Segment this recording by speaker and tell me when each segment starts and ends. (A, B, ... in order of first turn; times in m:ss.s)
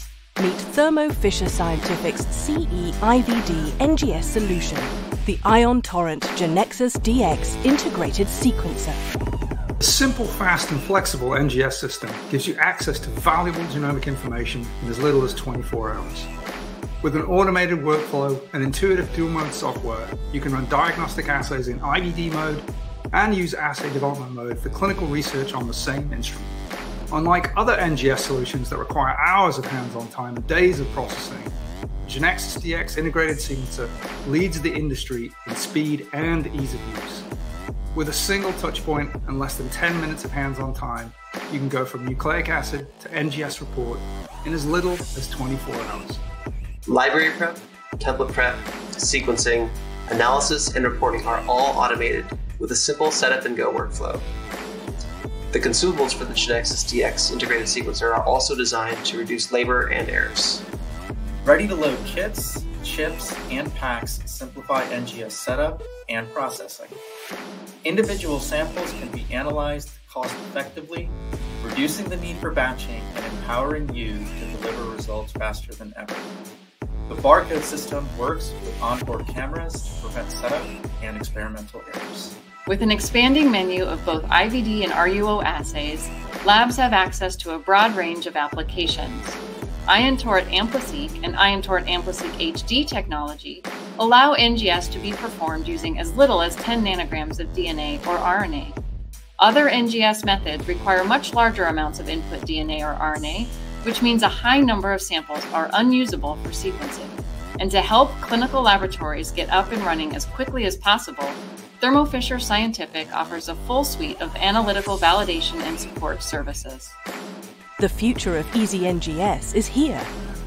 0:00.4-0:09.3 A
0:09.8-0:16.3 B
0:17.0-0:26.6 B
0:27.1-0:37.3 B
0:37.9-0:46.2 B
0:46.9-0:54.2 C
0:55.5-1:00.6 C
1:01.4-1:06.9 D
1:07.8-1:16.3 D
1:17.1-1:22.3 D
1:22.7-1:38.8 E
1:39.4-1:57.0 E
1:57.8-2:00.1 A